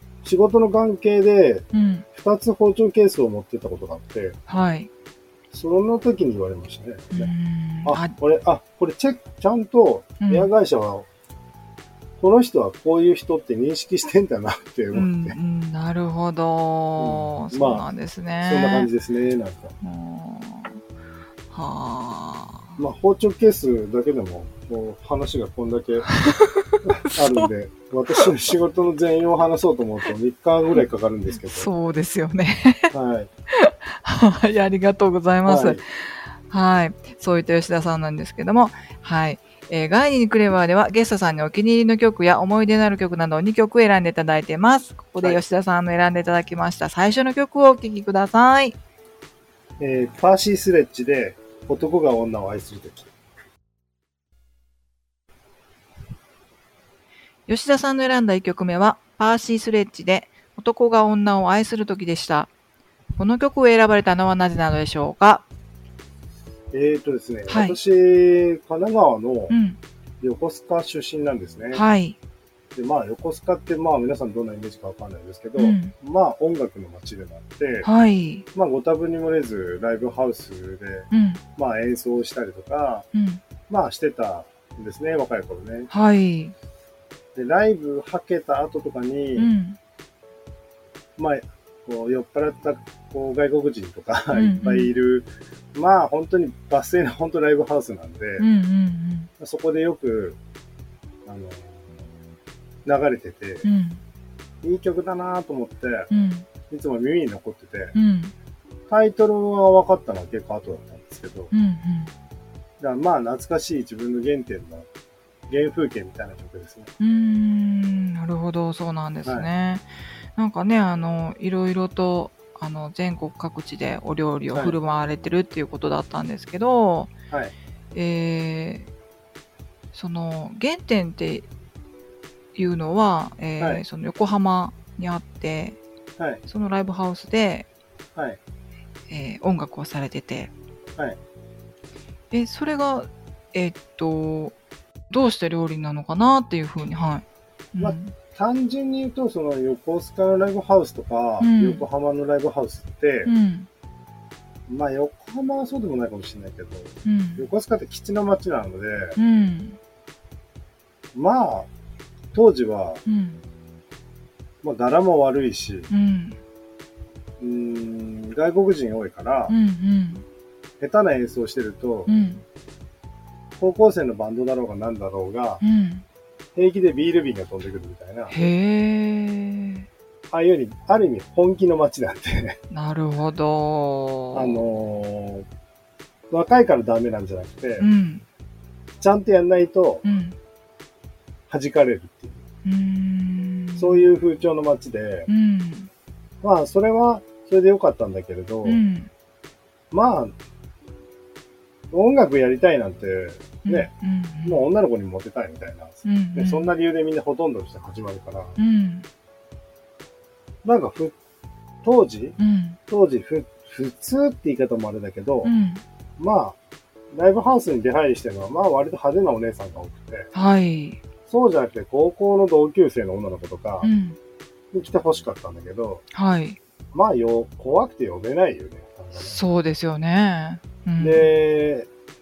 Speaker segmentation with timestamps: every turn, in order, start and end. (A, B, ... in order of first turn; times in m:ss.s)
0:00.2-0:04.4 A
0:01.7-0:02.0 B
0:04.5-0:04.9 B
0:05.5-0:07.3 A
0:07.1-0:08.1 B
0:07.8-0:11.1 A
0:10.2-0:10.5 B
0:12.2-0:15.4 A
0:14.9-0:18.9 B
0:17.0-0:17.8 A
0:18.4-0:19.8 A
0:19.8-0:20.8 B
0:21.5-0:22.8 B
0:22.8-0:26.2 A
0:26.1-0:27.5 B
0:26.8-0:31.7 A
0:31.3-0:32.9 B
0:32.9-0:33.3 A
0:33.5-0:48.8 B
0:35.4-0:35.8 A
0:49.8-0:53.1 A
0:57.5-1:02.5 B
1:03.2-1:05.4 B
1:06.7-1:09.6 A
1:07.5-1:07.8 B
1:09.5-1:09.8 B
1:10.2-1:11.8 A
1:11.7-1:12.2 B
1:12.7-1:17.9 A
1:15.6-1:15.9 B
1:17.8-1:18.5 B
1:18.5-1:23.1 A
1:21.1-1:21.4 B
1:23.1-1:23.4 B
1:23.7-1:25.9 A
1:25.9-1:26.5 B
1:27.3-1:29.5 A
1:29.4-1:29.8 B
1:31.2-1:38.5 A
1:34.3-1:34.9 B
1:38.4-1:39.3 B
1:39.4-1:40.4 A
1:41.2-1:41.9 A
1:42.8-1:43.7 A
1:43.6-1:44.0 B
1:44.6-1:46.1 A
1:46.1-1:46.5 B
1:46.7-1:48.0 A
1:48.0-1:48.3 B
1:48.9-1:51.5 A
1:51.5-1:52.1 B
1:52.8-1:54.9 A
1:55.5-1:56.9 A
1:57.0-2:07.1 B
2:07.3-2:07.5 A
2:07.9-2:08.9 B
2:09.9-2:11.5 B
2:12.5-2:15.8 B
2:16.2-2:16.4 A
2:16.5-2:17.7 B
2:19.1-2:20.5 B
2:22.3-2:24.5 B
2:25.1-2:28.1 B
2:27.8-2:33.3 A
2:31.4-2:31.8 B
2:33.2-2:33.7 B
2:34.7-2:39.2 A
2:37.0-2:37.4 B
2:39.2-2:39.8 B
2:41.1-2:41.7 A
2:42.3-2:43.0 A
2:43.0-2:43.4 B
2:44.6-2:45.9 A
2:45.9-2:46.4 B
2:47.4-2:49.6 A
2:49.5-2:50.2 B
2:50.8-2:52.1 A
2:52.1-2:52.4 B
2:53.6-2:55.6 A
2:55.6-2:56.0 B
2:56.6-2:58.3 A
2:58.3-2:59.8 B
3:00.3-3:02.6 A
3:02.7-3:04.6 B
3:04.3-3:05.4 A
3:06.3-3:07.9 A
3:07.8-3:08.2 B
3:09.0-3:10.0 A
3:10.0-3:10.4 B
3:11.5-3:12.4 A
3:12.6-3:14.1 B
3:13.8-3:15.3 A
3:15.3-3:15.9 B
3:16.4-3:18.8 A
3:18.6-3:19.1 B
3:19.9-3:20.3 A
3:21.9-3:23.9 A
3:23.6-3:24.6 B
3:24.4-3:28.6 A
3:26.0-3:26.7 B
3:28.6-3:29.1 B
3:30.6-3:31.1 A
3:31.8-3:32.4 A
3:32.4-3:32.8 B
3:32.9-3:35.5 A
3:35.4-3:35.8 B
3:36.2-3:36.6 A
3:37.1-3:40.3 A
3:40.3-3:41.0 B
3:41.3-3:43.9 A
3:43.8-3:44.2 B
3:44.7-3:46.0 A
3:46.1-3:46.6 B
3:46.9-3:49.4 A
3:49.2-3:51.3 B
3:51.0-3:51.9 A